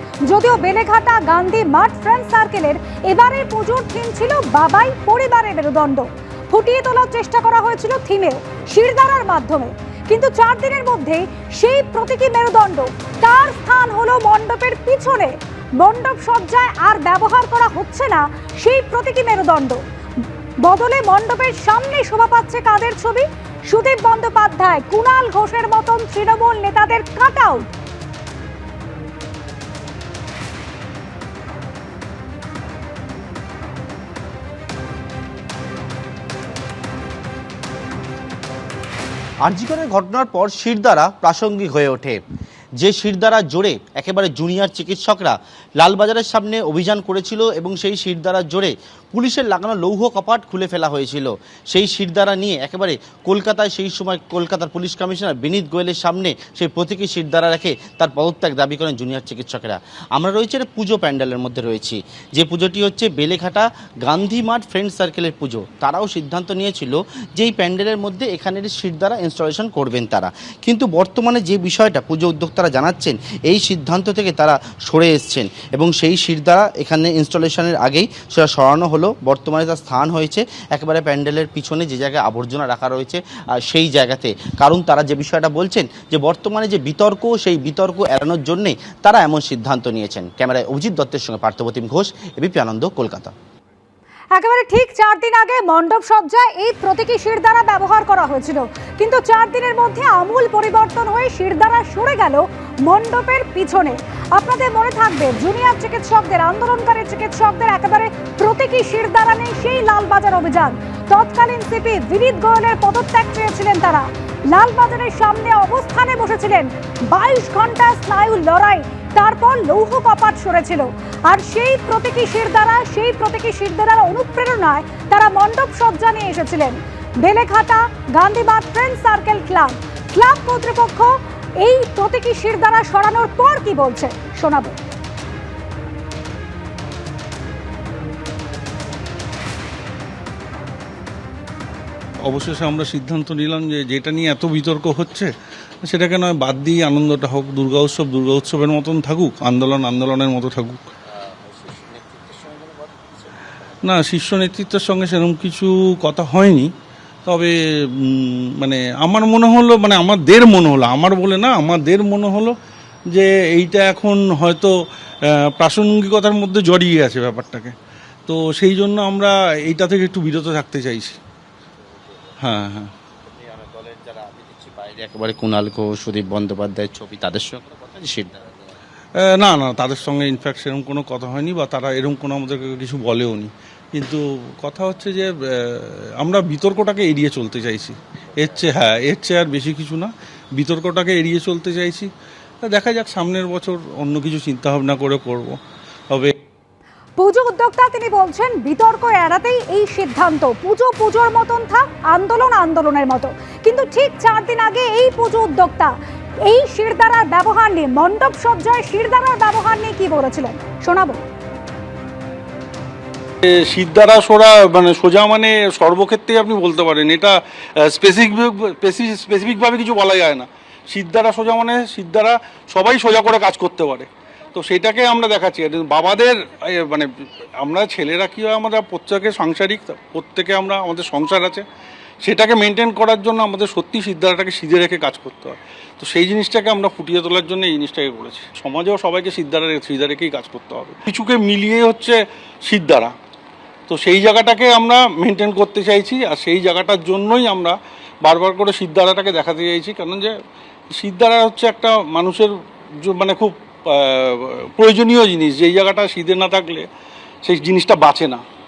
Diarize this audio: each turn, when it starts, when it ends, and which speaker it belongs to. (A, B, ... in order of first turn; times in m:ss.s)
0:00.3-0:19.8 A
0:20.6-0:27.7 A
0:39.4-0:42.2 B
0:42.8-1:33.3 B
1:34.4-2:14.8 A
2:22.3-2:25.3 C
2:25.8-2:30.8 C
2:31.4-2:32.7 B
2:33.8-2:36.7 C
2:37.3-2:37.5 C
2:38.1-2:42.6 C
2:43.1-2:44.7 C
2:45.6-2:47.7 C
2:48.3-2:51.2 C
2:52.4-2:52.9 C
2:53.4-2:58.7 B
2:59.2-3:12.1 C
3:12.7-3:15.6 C
3:17.2-3:25.9 A
3:26.5-3:31.2 A
3:33.5-3:47.1 C
3:47.6-3:51.6 C
3:52.2-4:03.1 C
4:03.9-4:10.3 C
4:11.0-4:12.5 C
4:13.0-4:16.9 C
4:17.4-4:18.4 C